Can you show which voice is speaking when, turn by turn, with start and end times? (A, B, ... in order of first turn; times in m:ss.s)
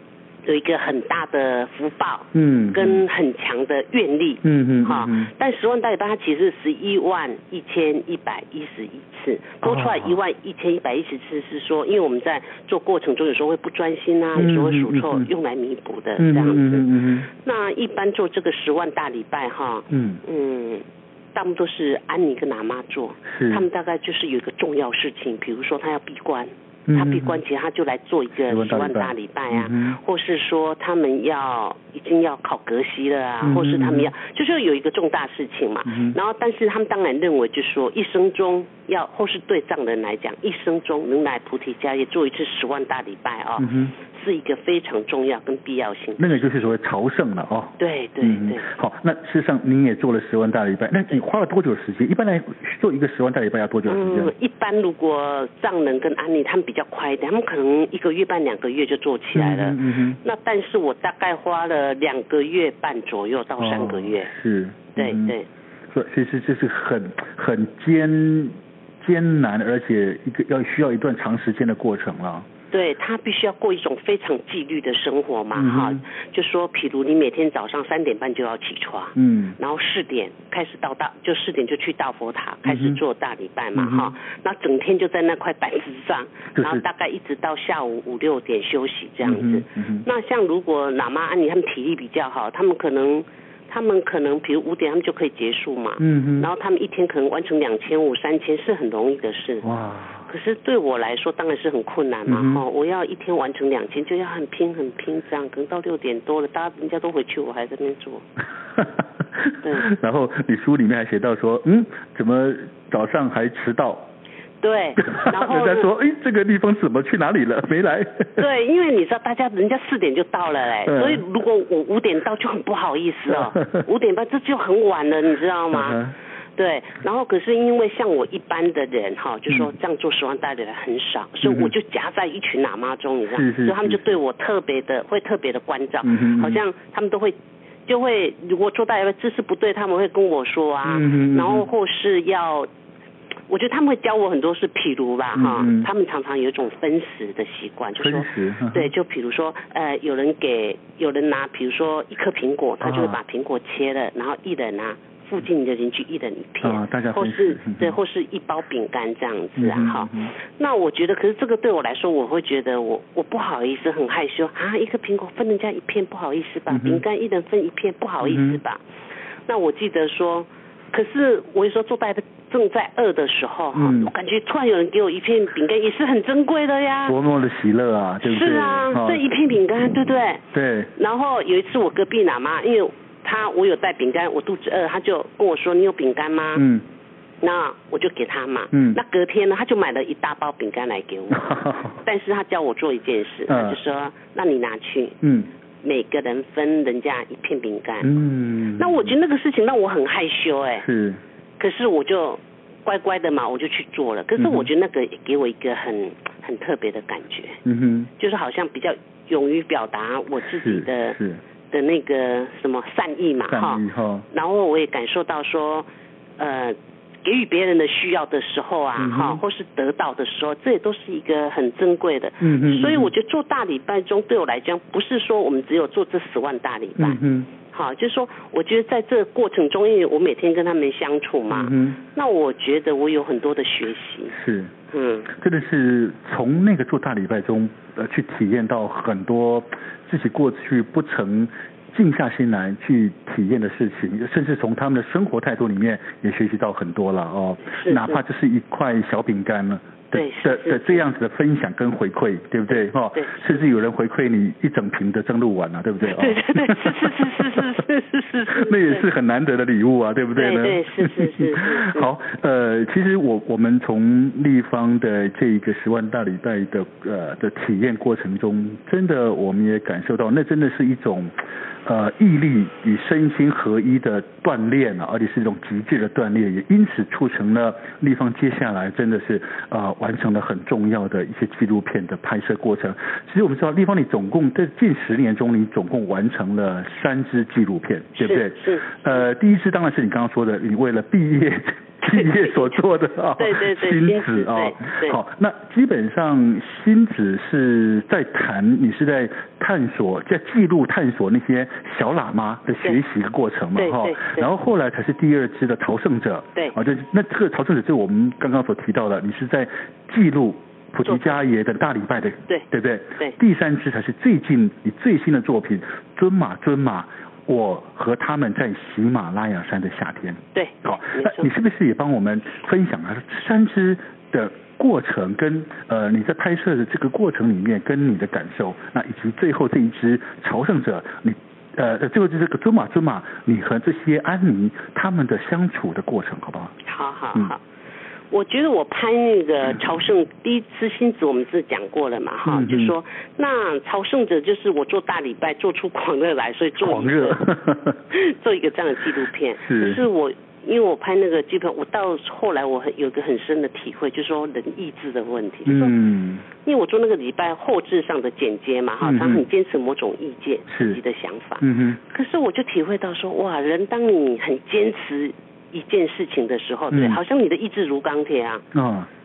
0:00.4-0:46.4 A
0:02.3-0:03.0 B
0:04.4-0:05.3 B
0:09.6-0:10.2 B
0:14.4-0:15.3 B
0:16.2-0:17.3 B
0:19.9-0:20.2 B
0:23.3-0:23.7 B
0:26.9-0:27.4 B
0:28.5-0:30.0 B
0:33.4-0:34.1 B
0:35.8-0:36.2 B
0:43.6-0:44.0 B
0:46.2-0:54.3 B
0:47.8-0:48.6 A
0:53.9-1:04.3 A
0:59.3-1:00.2 B
1:03.6-1:05.4 B
1:05.0-1:05.5 A
1:05.9-1:12.5 B
1:12.7-1:39.7 A
1:15.6-1:16.0 B
1:19.2-1:19.6 B
1:22.6-1:23.0 B
1:23.8-1:24.2 B
1:26.6-1:26.8 B
1:29.2-1:30.1 B
1:36.0-1:36.5 B
1:39.6-1:40.3 B
1:40.3-1:48.2 A
1:42.3-1:42.6 B
1:48.8-1:54.1 B
1:49.6-1:49.9 A
1:54.6-1:55.9 A
1:55.0-1:58.4 B
1:58.4-2:06.0 A
2:00.8-2:01.2 B
2:03.3-2:03.8 B
2:05.7-2:06.2 B
2:06.6-2:17.4 A
2:11.4-2:11.7 B
2:13.3-2:14.2 B
2:16.0-2:16.6 B
2:17.9-2:22.7 A
2:20.8-2:21.7 B
2:23.5-2:48.8 A
2:25.3-2:25.9 B
2:28.0-2:28.9 B
2:32.8-2:33.2 B
2:36.6-2:38.0 B
2:39.6-2:40.4 B
2:46.7-2:47.0 B
2:48.2-2:48.6 B
2:49.5-2:57.2 A
2:53.7-2:54.1 B
2:57.1-2:59.2 B
2:58.2-3:00.4 A
3:00.5-3:00.9 B
3:01.0-3:06.6 A
3:06.6-3:06.8 B
3:07.4-3:15.2 A
3:08.7-3:09.0 B
3:11.3-3:12.0 B
3:13.5-3:13.8 B
3:15.2-3:15.5 B
3:15.8-3:18.1 A
3:18.0-3:19.2 B
3:18.8-3:20.9 A
3:20.8-3:21.2 B
3:21.6-3:27.6 A
3:24.4-3:24.7 B
3:27.6-3:28.1 B
3:28.2-3:31.2 A
3:30.6-3:31.4 B
3:31.7-3:35.9 A
3:33.5-3:34.3 B
3:36.4-3:54.4 A
3:39.0-3:39.4 B
3:42.4-3:43.1 B
3:47.0-3:47.5 B
3:51.5-3:52.0 B
3:54.3-3:54.7 B
3:54.9-3:55.3 A
3:55.3-4:17.6 B
4:07.7-4:08.2 A
4:10.1-4:11.0 A
4:12.7-4:13.6 A
4:16.0-4:19.1 A
4:18.5-5:36.8 B
4:20.4-4:22.1 A
4:48.2-4:49.3 A
4:52.1-4:52.8 A
4:53.4-4:55.2 A
5:03.8-5:04.5 A
5:11.0-5:11.4 A
5:20.6-5:21.5 A
5:36.8-5:37.6 A
5:38.3-5:47.4 A
5:42.5-5:43.0 B
5:46.8-5:48.0 B
5:48.1-5:56.0 A
5:49.6-5:50.0 B
5:55.7-5:56.4 B
5:56.6-6:08.6 A
5:59.0-5:59.4 B
6:00.7-6:01.0 B
6:01.6-6:02.0 B
6:06.9-6:07.2 B
6:08.7-6:09.1 B